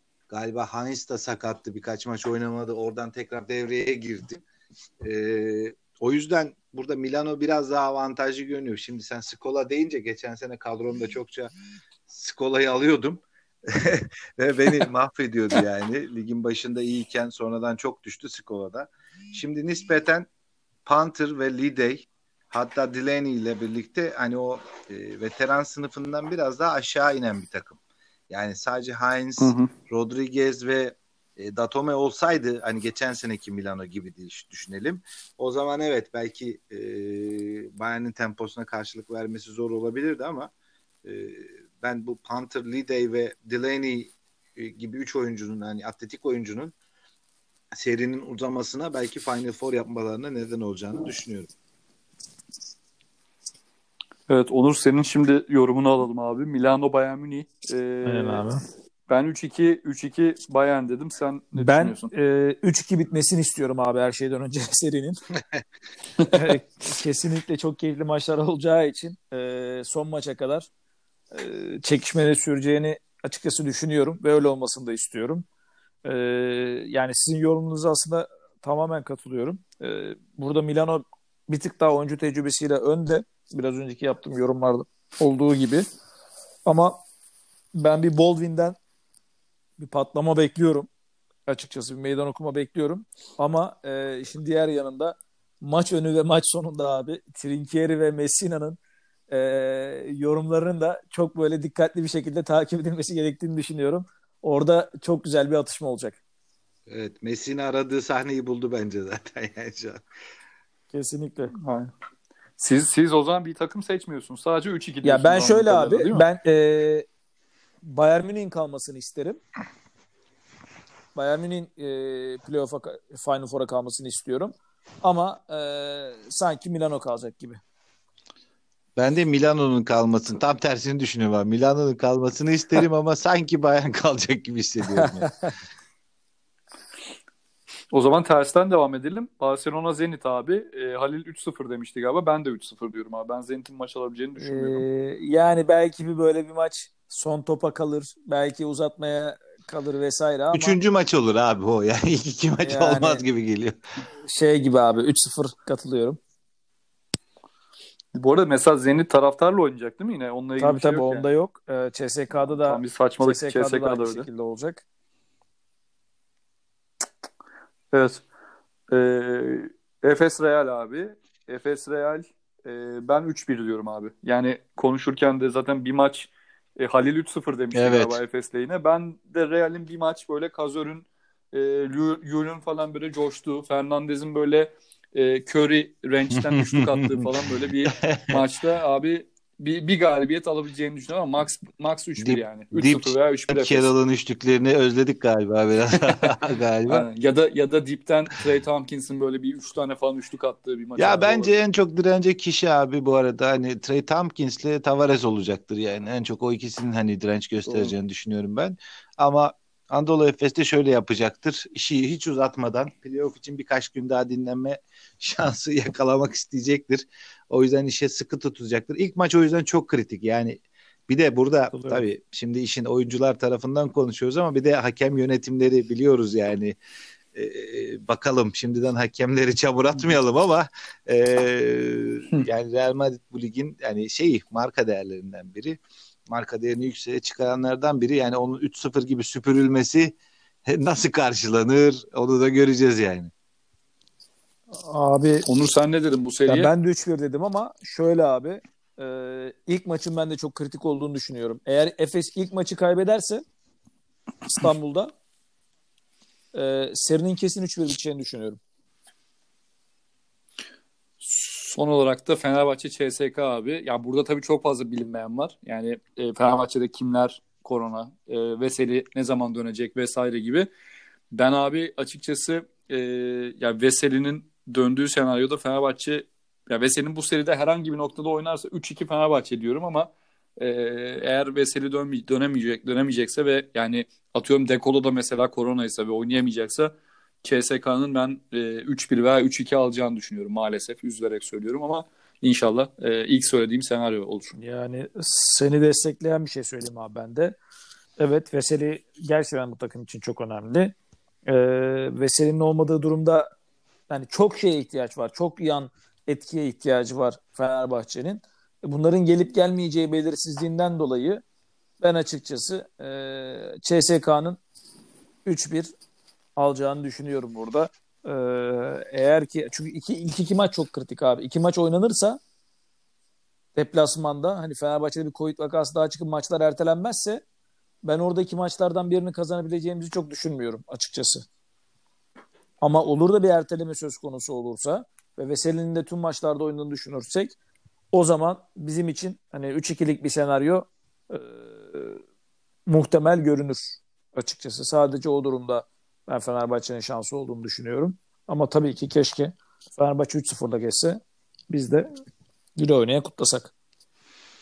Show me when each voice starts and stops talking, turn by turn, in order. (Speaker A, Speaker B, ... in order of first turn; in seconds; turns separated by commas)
Speaker A: 0.3-4.4, Speaker A: 5.0-11.5, Speaker A: 12.1-20.3, Speaker A: 20.8-27.8, Speaker A: 28.3-40.5, Speaker B: 29.4-29.7, Speaker A: 41.0-46.7, Speaker A: 47.8-51.5, Speaker B: 54.3-58.4, Speaker C: 58.0-58.6, Speaker B: 59.1-62.1, Speaker C: 61.5-65.2, Speaker C: 66.3-70.7, Speaker C: 71.3-75.4, Speaker C: 76.0-85.8, Speaker C: 86.7-87.0, Speaker C: 87.7-88.8, Speaker C: 89.8-90.9, Speaker C: 91.5-98.8, Speaker C: 99.3-106.2, Speaker A: 106.9-110.0, Speaker C: 110.9-111.5, Speaker B: 111.5-111.9, Speaker B: 112.6-116.2, Speaker C: 115.0-117.0, Speaker C: 117.8-119.4, Speaker C: 121.1-127.6, Speaker A: 129.0-135.3, Speaker C: 134.9-135.5, Speaker B: 137.9-144.8, Speaker C: 144.4-150.8, Speaker A: 150.5-153.8, Speaker C: 152.6-153.2, Speaker C: 154.2-156.2, Speaker B: 158.1-161.3, Speaker C: 160.6-164.8, Speaker B: 162.3-164.3, Speaker B: 167.9-168.2, Speaker B: 168.9-193.9, Speaker A: 177.7-178.2, Speaker A: 186.3-187.3, Speaker A: 187.8-188.4, Speaker A: 192.2-197.1, Speaker B: 196.9-201.5, Speaker A: 201.0-226.8, Speaker B: 207.7-207.9, Speaker C: 221.7-222.0, Speaker A: 227.3-243.3, Speaker C: 244.7-245.5, Speaker B: 245.4-246.7, Speaker C: 246.5-253.4, Speaker C: 254.4-255.1, Speaker C: 256.5-258.6, Speaker B: 261.2-270.7, Speaker B: 271.3-286.9, Speaker B: 287.4-294.6, Speaker C: 294.6-297.6, Speaker C: 298.2-300.9, Speaker C: 301.4-303.5, Speaker C: 304.1-311.4, Speaker C: 312.0-314.6, Speaker C: 315.4-315.9, Speaker C: 316.6-322.4, Speaker C: 323.7-327.4, Speaker C: 328.0-331.4, Speaker C: 332.8-337.5, Speaker C: 338.1-342.2, Speaker C: 342.9-352.1, Speaker C: 352.8-353.7